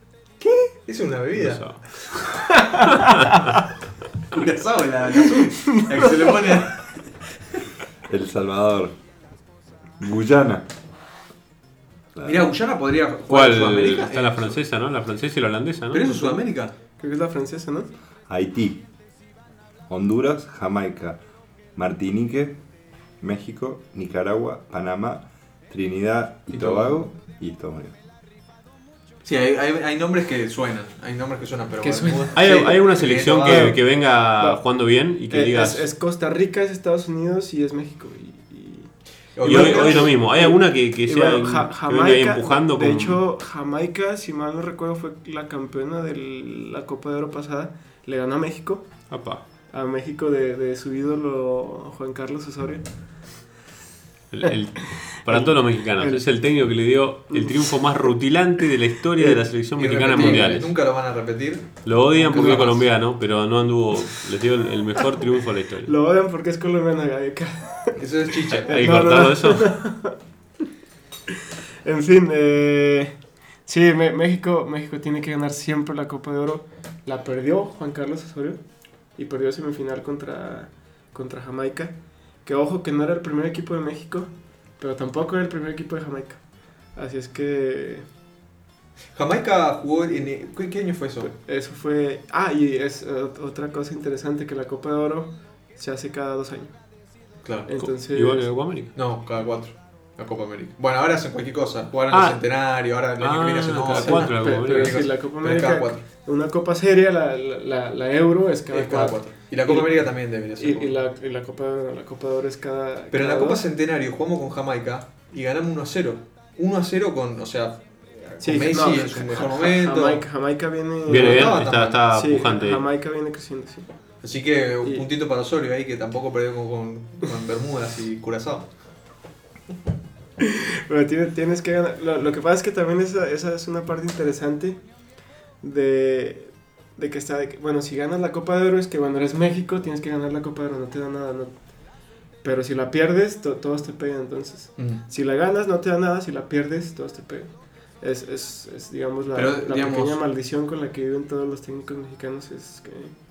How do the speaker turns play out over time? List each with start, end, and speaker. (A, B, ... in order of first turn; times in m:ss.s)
0:00.4-0:01.7 A
0:01.4-0:03.5 B
0:02.5-0:03.4 C
0:04.3-0:07.0 A
0:05.7-0:06.5 C
0:08.1-0:09.0 D
0:10.0-0:10.7 D
0:12.2-0:12.4 D
0:12.2-0:14.6 A
0:13.3-0:16.4 B
0:15.9-0:16.7 A
0:17.0-0:17.9 C
0:18.3-0:18.8 D
0:19.9-0:21.2 D
0:21.8-0:22.6 D
0:23.2-0:28.0 D
0:26.5-0:27.0 A
0:29.2-0:33.7 A
0:31.8-0:32.8 C
0:32.4-0:35.9 B
0:33.4-0:34.6 C
0:35.3-0:48.9 C
0:39.4-0:40.1 A
0:39.4-0:43.2 B
0:49.1-0:49.4 B
0:49.7-0:52.8 C
0:54.3-1:00.7 B
0:55.2-0:56.3 C
0:57.3-0:57.7 C
0:59.6-1:02.9 A
1:00.1-1:00.5 C
1:01.8-1:05.9 B
1:05.8-1:08.0 C
1:08.0-1:09.1 A
1:08.5-1:09.8 B
1:08.7-1:10.2 C
1:11.3-1:18.6 C
1:19.2-1:26.4 C
1:26.9-1:28.0 C
1:29.2-1:31.3 A
1:31.2-1:36.8 C
1:37.4-1:37.7 A
1:37.7-1:38.5 C
1:37.8-1:38.9 B
1:38.9-1:46.0 A
1:42.1-1:42.4 B
1:43.2-1:45.0 B
1:43.9-1:50.0 C
1:48.7-1:51.0 A
1:50.6-1:53.6 C
1:53.1-2:00.2 A
1:58.4-2:01.6 C
2:01.1-2:02.8 B
2:01.1-2:02.0 A
2:02.1-2:03.9 C
2:04.2-2:08.7 A
2:10.4-2:14.8 C
2:15.6-2:21.6 C
2:22.4-2:33.1 C
2:29.4-2:30.2 A